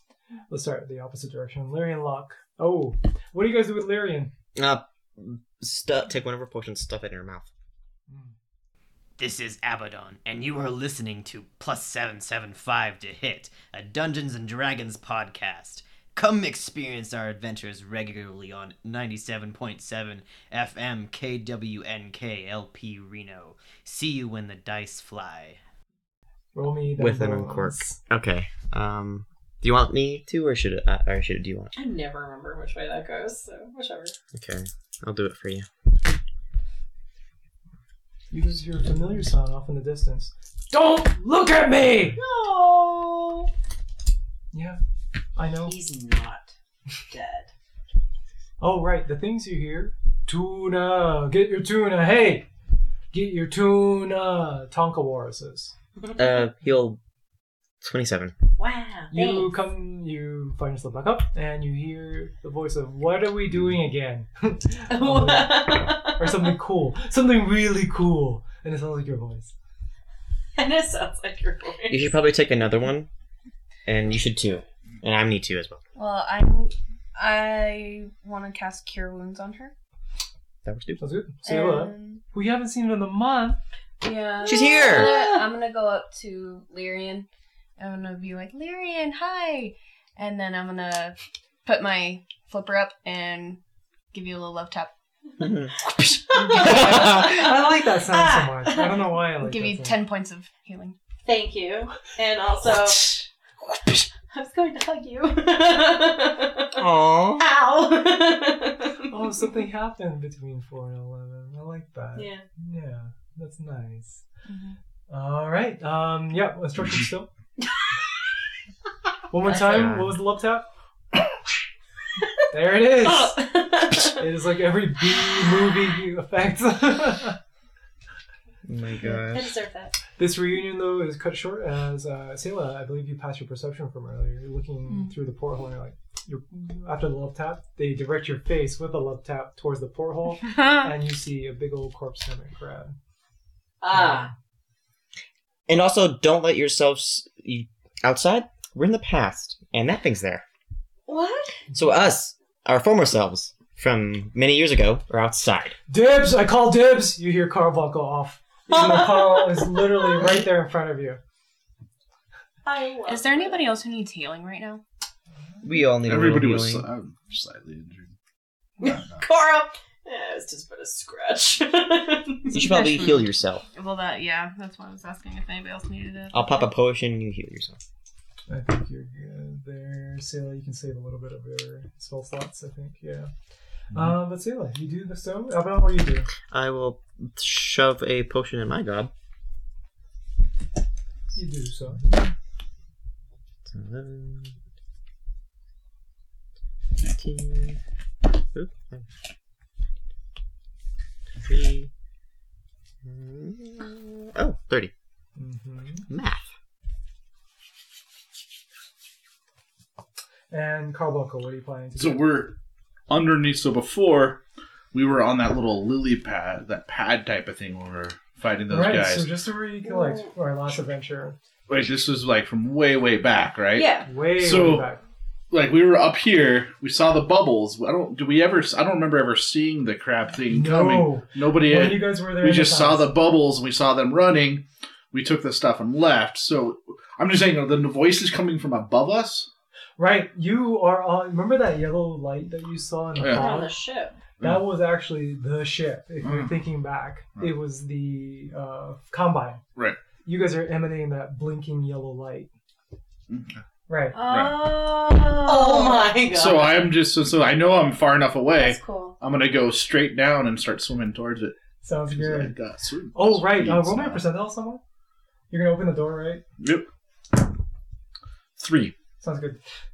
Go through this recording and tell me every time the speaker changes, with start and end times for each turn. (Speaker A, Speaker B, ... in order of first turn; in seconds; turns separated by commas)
Speaker A: 0.5-4.3, Speaker B: 4.5-7.5, Speaker A: 8.1-8.4, Speaker C: 9.2-25.6, Speaker A: 26.6-28.0, Speaker B: 26.9-31.7, Speaker D: 31.8-34.2, Speaker B: 34.3-35.7, Speaker A: 38.3-42.2, Speaker D: 42.1-43.5, Speaker A: 44.5-44.8, Speaker A: 45.4-45.8, Speaker D: 45.6-46.5, Speaker D: 47.1-47.5, Speaker A: 48.6-52.5, Speaker A: 53.1-55.7, Speaker B: 56.1-57.0, Speaker B: 57.8-58.3, Speaker D: 58.6-59.5, Speaker A: 59.1-69.5, Speaker D: 64.9-66.5, Speaker D: 70.6-72.2, Speaker B: 71.9-73.1, Speaker B: 73.9-75.8, Speaker E: 76.0-79.7, Speaker B: 80.7-81.0, Speaker A: 81.0-83.6, Speaker E: 81.5-82.2, Speaker E: 84.0-87.3, Speaker D: 84.4-85.5, Speaker B: 84.5-85.2, Speaker E: 87.8-93.6, Speaker E: 94.1-94.9, Speaker B: 95.4-95.7, Speaker D: 96.0-99.2, Speaker A: 96.3-100.0, Speaker E: 99.4-101.0, Speaker D: 101.2-103.2, Speaker D: 103.9-106.8, Speaker B: 106.8-107.5, Speaker D: 107.3-109.4, Speaker A: 109.1-114.2, Speaker D: 112.2-112.5, Speaker E: 114.5-114.8, Speaker A: 115.1-117.3, Speaker A: 119.3-120.7, Speaker D: 119.5-119.8, Speaker B: 119.5-120.2, Speaker A: 122.5-127.4, Speaker D: 122.8-124.3, Speaker D: 125.1-125.8, Speaker B: 128.7-129.6, Speaker D: 129.0-130.0, Speaker A: 130.2-142.9, Speaker D: 143.8-144.3, Speaker A: 144.0-144.2, Speaker B: 145.7-150.4, Speaker D: 151.1-151.6, Speaker B: 151.7-155.8, Speaker A: 155.9-161.2, Speaker D: 158.7-160.4, Speaker D: 162.6-163.8, Speaker E: 163.1-164.8, Speaker B: 165.6-166.9, Speaker F: 166.0-168.1, Speaker F: 168.8-169.2, Speaker D: 168.8-173.2, Speaker B: 172.5-173.6, Speaker E: 172.6-176.7, Speaker B: 176.3-177.8, Speaker A: 178.5-183.3, Speaker A: 183.9-186.3, Speaker B: 186.5-189.1, Speaker A: 191.3-192.0, Speaker B: 192.0-192.3, Speaker B: 193.7-194.6, Speaker B: 197.0-197.8, Speaker B: 198.5-199.1, Speaker B: 201.4-201.9, Speaker B: 203.0-204.9, Speaker A: 205.4-206.1, Speaker B: 206.1-206.5, Speaker A: 210.5-212.3, Speaker F: 212.0-212.6, Speaker F: 213.1-214.4, Speaker F: 214.9-219.3, Speaker A: 218.7-221.4, Speaker D: 219.9-220.3, Speaker F: 221.7-224.9, Speaker D: 223.7-224.1, Speaker A: 224.0-225.0, Speaker F: 225.5-239.5, Speaker A: 230.5-233.2, Speaker A: 240.0-243.8, Speaker F: 243.2-243.5, Speaker D: 243.2-244.2, Speaker A: 244.4-249.6, Speaker F: 246.2-246.6, Speaker A: 250.2-252.5, Speaker F: 253.3-253.6, Speaker A: 253.9-254.2, Speaker E: 254.1-256.1, Speaker F: 254.2-254.6, Speaker D: 254.5-256.9, Speaker F: 256.2-261.6, Speaker E: 258.5-259.2, Speaker A: 261.8-262.6, Speaker F: 262.1-264.2, Speaker A: 263.1-264.8, Speaker A: 265.5-266.4, Speaker F: 266.6-266.9, Speaker F: 268.6-268.9, Speaker A: 269.2-269.6